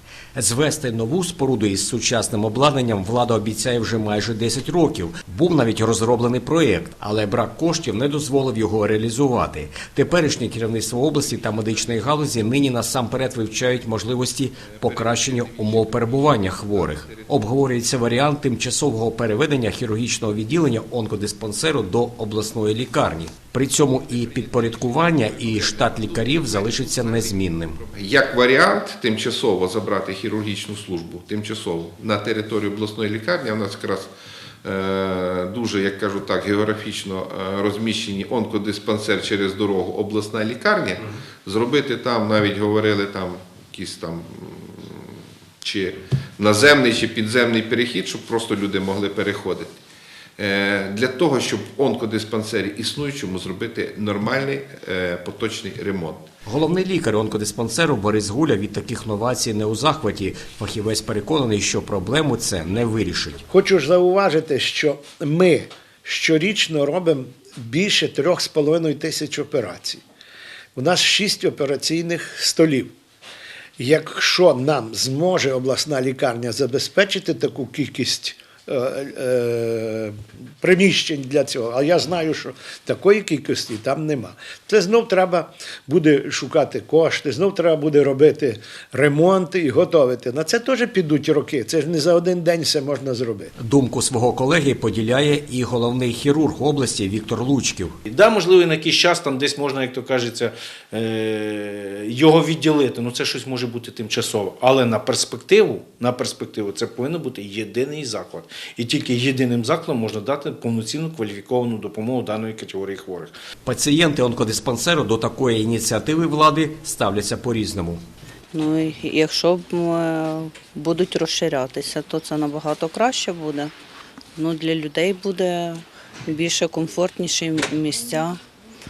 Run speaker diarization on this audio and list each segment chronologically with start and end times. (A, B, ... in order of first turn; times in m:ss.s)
0:00.3-0:27.8 A
0:14.7-0:17.6 B
0:23.9-0:34.1 B
0:34.6-0:49.7 B
0:50.4-0:56.3 B
0:56.4-1:03.4 A
1:03.5-1:10.0 C
1:10.8-1:12.9 C
1:13.8-1:33.5 C
1:33.6-1:38.0 A
1:38.1-1:53.3 D
1:53.6-1:58.0 A
1:58.5-2:03.7 E
2:04.4-2:08.4 E